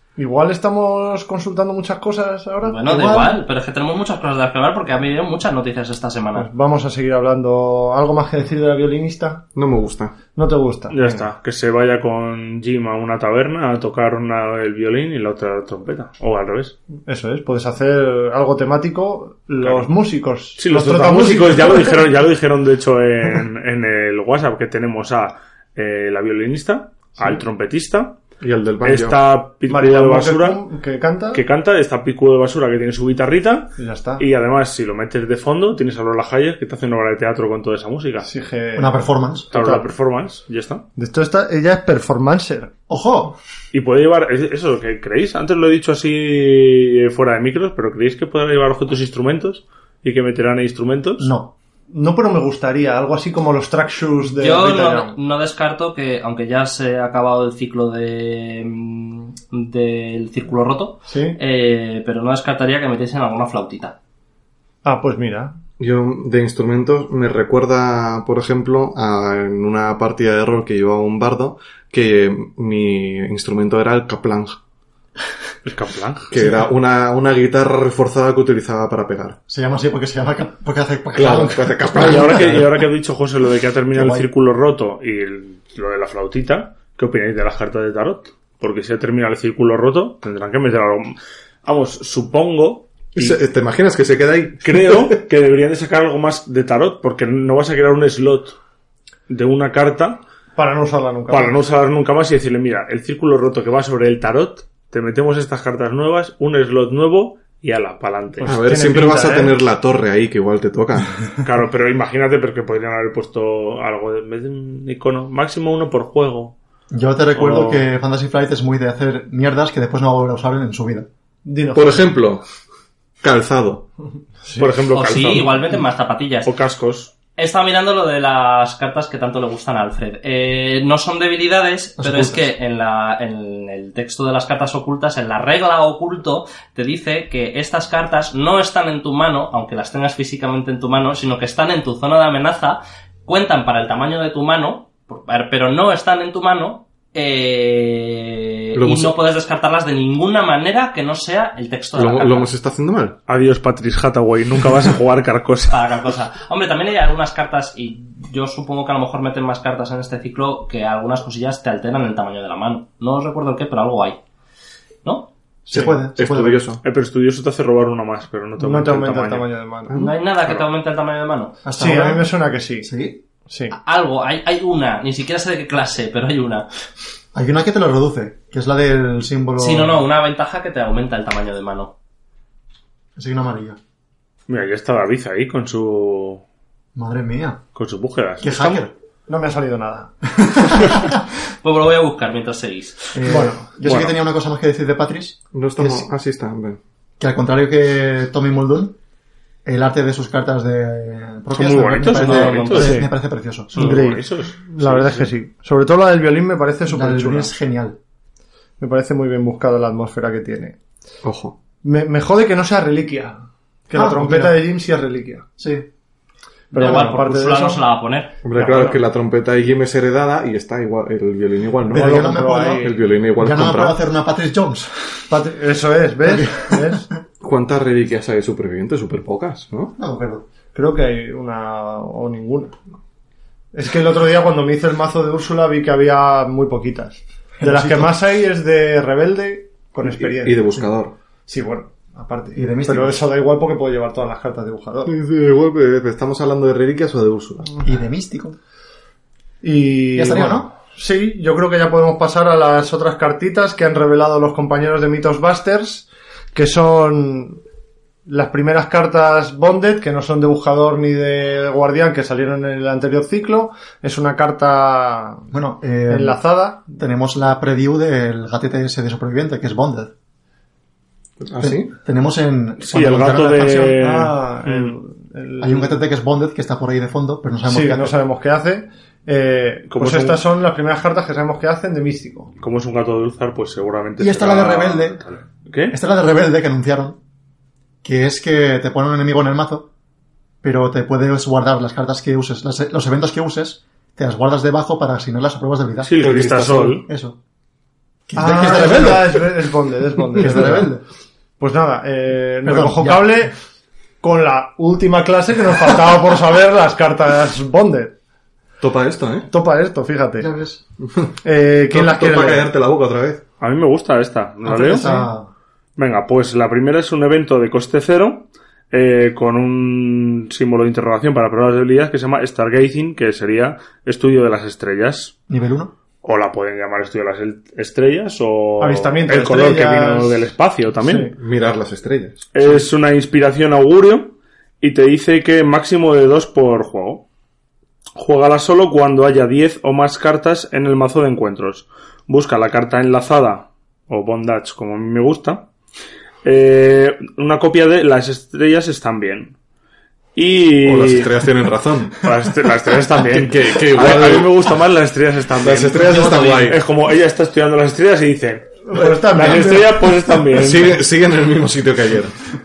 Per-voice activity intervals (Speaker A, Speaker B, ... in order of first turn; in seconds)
Speaker A: 0.2-3.3, 6.3-9.4, 10.3-11.2, 17.1-22.1, 29.7-31.4, 33.8-34.2, 38.2-39.9, 41.0-42.7, 51.9-55.1, 61.1-61.4, 64.8-65.5, 100.5-101.5, 108.4-109.6, 121.4-122.1, 124.4-124.7, 168.6-170.0, 171.8-172.9, 173.5-173.8, 189.3-190.3, 193.2-193.7, 202.8-203.1, 203.7-207.5, 208.8-210.8, 211.8-215.4, 216.7-217.8, 218.5-219.0, 221.9-223.0, 225.3-227.1, 230.7-232.8, 233.7-240.7, 241.4-245.1, 249.6-257.6, 258.3-265.5, 266.1-266.9, 274.0-275.9, 277.7-282.5, 298.4-300.9, 301.6-303.5, 304.2-308.1, 309.5-310.5, 311.4-312.7, 314.9-315.2, 328.8-330.5, 331.0-331.3, 358.9-360.0
Speaker B: 2.6-6.5, 54.4-63.9, 124.9-126.5, 127.4-152.5, 155.7-164.2, 169.9-171.6, 173.7-176.7, 179.6-181.9, 191.6-193.1, 202.1-203.0, 216.7-218.4
Speaker C: 9.5-10.2, 28.4-29.2, 65.8-74.6, 76.3-79.4, 81.1-82.7, 93.2-95.2, 108.4-111.2, 121.7-122.4, 123.2-123.8, 148.7-149.1, 151.9-153.2, 165.7-166.8, 169.9-170.6, 195.5-196.8, 211.2-211.6, 218.4-223.9, 227.4-229.9, 240.0-241.1, 245.1-247.7, 271.4-271.9, 296.2-297.0, 300.4-300.9, 308.8-309.5, 311.0-311.3, 311.9-313.4, 331.3-332.5, 350.8-352.3, 353.3-354.5, 355.6-356.8, 359.4-359.7, 360.5-362.3
Speaker D: 10.9-16.7, 19.6-19.9, 20.6-28.2, 28.8-30.6, 31.3-38.3, 39.5-40.8, 43.7-51.3, 75.6-76.3, 82.0-93.4, 94.6-98.6, 99.3-100.2, 101.3-108.5, 111.4-116.5, 117.3-117.8, 124.6-125.7, 126.4-127.1, 153.3-155.8, 166.8-169.5, 184.5-186.4, 187.7-188.9, 193.8-194.2, 201.5-203.0, 203.7-205.3, 272.8-274.9, 279.9-280.4, 282.6-285.9, 296.0-297.1, 313.6-315.2, 316.0-325.3, 326.2-331.3, 332.5-337.2, 338.2-345.6, 346.4-349.5, 350.3-351.3, 352.2-360.9
Speaker E: 38.7-39.5, 42.9-43.4, 51.2-51.5, 76.4-76.7, 79.5-82.4, 83.9-84.3, 116.9-121.1, 132.0-132.5, 165.7-166.6, 171.6-172.3, 172.8-173.2, 177.3-180.0, 183.2-183.8, 186.9-187.6, 188.4-188.9, 190.4-191.2, 193.1-196.1, 197.2-198.9, 199.6-203.9, 206.9-208.0, 213.9-214.6, 215.6-215.9, 216.8-217.2, 221.9-225.3, 226.2-227.1, 230.0-230.4, 237.6-238.1, 242.5-243.2, 247.8-248.6, 250.1-250.7, 265.5-270.1, 271.6-274.0, 275.6-278.1, 284.2-285.2, 285.9-287.2, 288.0-289.9, 290.6-296.4, 297.1-297.4, 298.3-299.4, 300.4-301.0, 302.6-303.5, 310.4-310.8, 314.6-315.5, 325.5-325.9